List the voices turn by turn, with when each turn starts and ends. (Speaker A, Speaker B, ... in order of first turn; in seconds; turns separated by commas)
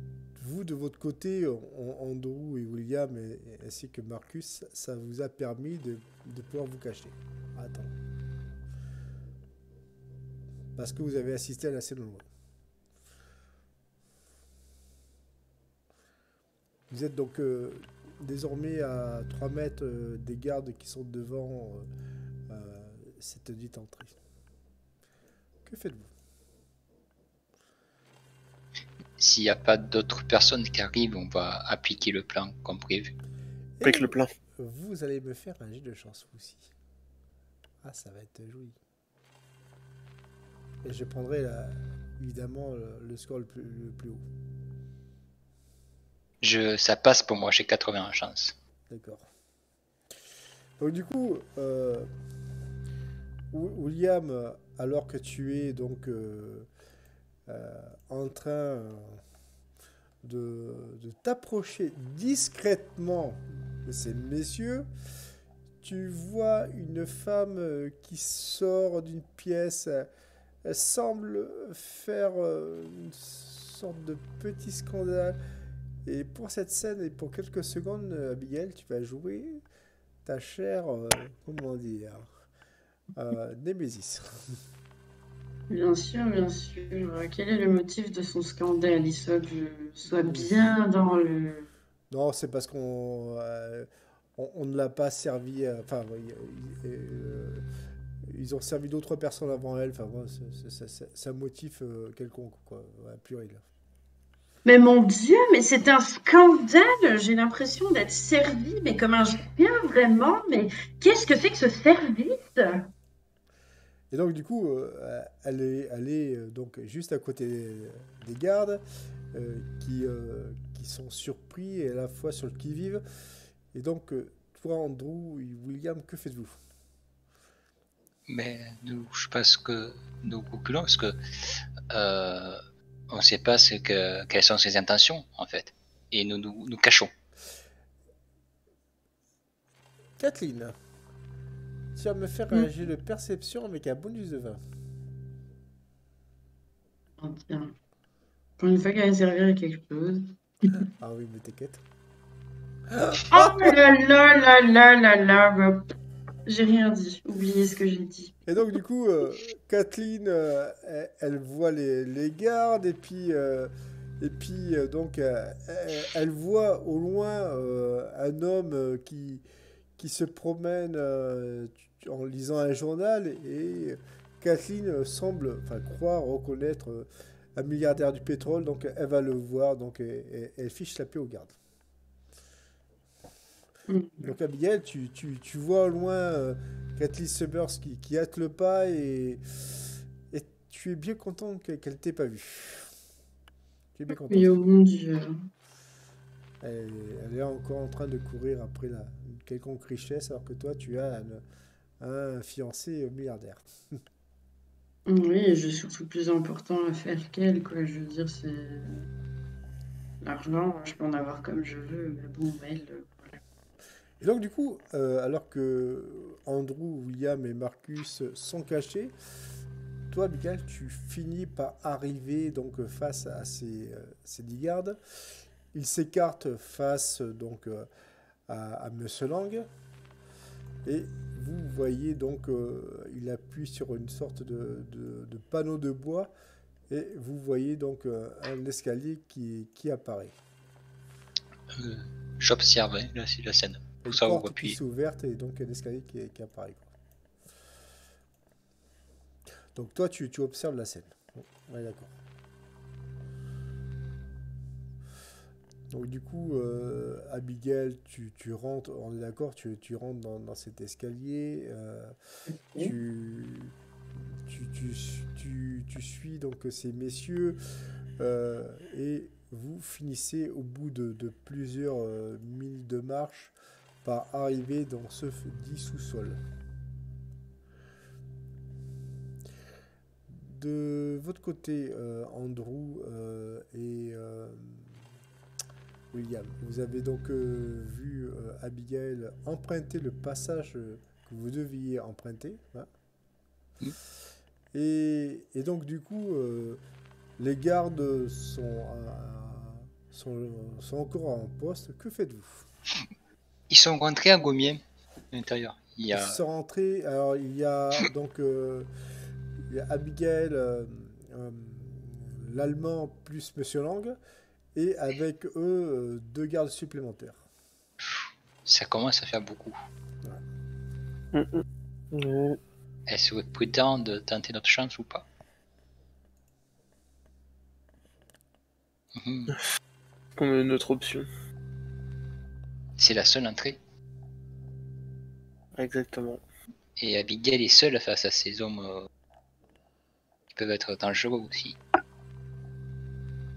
Speaker A: 0.3-7.9, Speaker A: 10.8-12.2, Speaker A: 16.9-21.9, Speaker A: 22.5-24.1, Speaker A: 25.6-26.1, Speaker B: 29.2-33.1, Speaker A: 33.8-36.7, Speaker C: 33.8-34.3, Speaker A: 37.8-38.8, Speaker A: 40.8-44.2, Speaker B: 46.4-48.5, Speaker A: 48.9-49.2, Speaker A: 50.8-52.1, Speaker A: 53.5-56.7, Speaker A: 57.5-59.2, Speaker A: 60.2-64.9, Speaker A: 65.8-70.1, Speaker A: 70.6-75.4, Speaker A: 76.0-79.6, Speaker A: 80.2-82.3, Speaker A: 83.2-84.3, Speaker D: 85.7-91.7, Speaker A: 90.2-90.7, Speaker A: 92.1-97.6, Speaker A: 98.3-103.6, Speaker D: 104.6-112.9, Speaker A: 114.1-118.8, Speaker A: 119.3-123.0, Speaker A: 123.7-126.6, Speaker B: 128.3-131.2, Speaker B: 131.9-137.1, Speaker A: 140.2-140.8, Speaker A: 141.9-144.6, Speaker D: 147.2-147.7, Speaker D: 148.6-150.3, Speaker A: 150.8-151.8, Speaker A: 152.9-153.7, Speaker D: 153.3-155.9, Speaker D: 156.4-158.4, Speaker A: 158.5-169.4, Speaker A: 170.0-181.6, Speaker D: 183.9-184.3, Speaker A: 184.2-192.9, Speaker A: 193.9-194.6, Speaker D: 194.2-195.4, Speaker A: 196.6-201.4, Speaker A: 202.0-203.7, Speaker D: 205.1-209.0, Speaker D: 210.2-213.4, Speaker A: 214.2-219.1, Speaker A: 220.1-225.0, Speaker A: 225.7-227.9, Speaker A: 228.5-229.7, Speaker A: 230.8-236.3, Speaker A: 236.9-240.3, Speaker B: 241.7-244.8, Speaker A: 244.0-246.9, Speaker A: 249.7-252.1, Speaker A: 255.9-262.1, Speaker A: 262.8-263.7, Speaker A: 264.4-267.6, Speaker A: 268.2-276.4, Speaker A: 280.3-285.0, Speaker A: 286.1-292.9, Speaker A: 294.7-296.8, Speaker A: 297.4-302.7, Speaker B: 303.7-306.4, Speaker A: 306.1-308.9, Speaker A: 309.7-314.2, Speaker A: 314.7-317.4, Speaker B: 318.6-319.8, Speaker C: 321.3-322.6, Speaker B: 323.1-325.2, Speaker B: 329.1-329.5, Speaker C: 330.4-331.3, Speaker B: 333.0-333.8, Speaker C: 335.7-336.4, Speaker B: 337.0-339.1, Speaker B: 340.5-341.8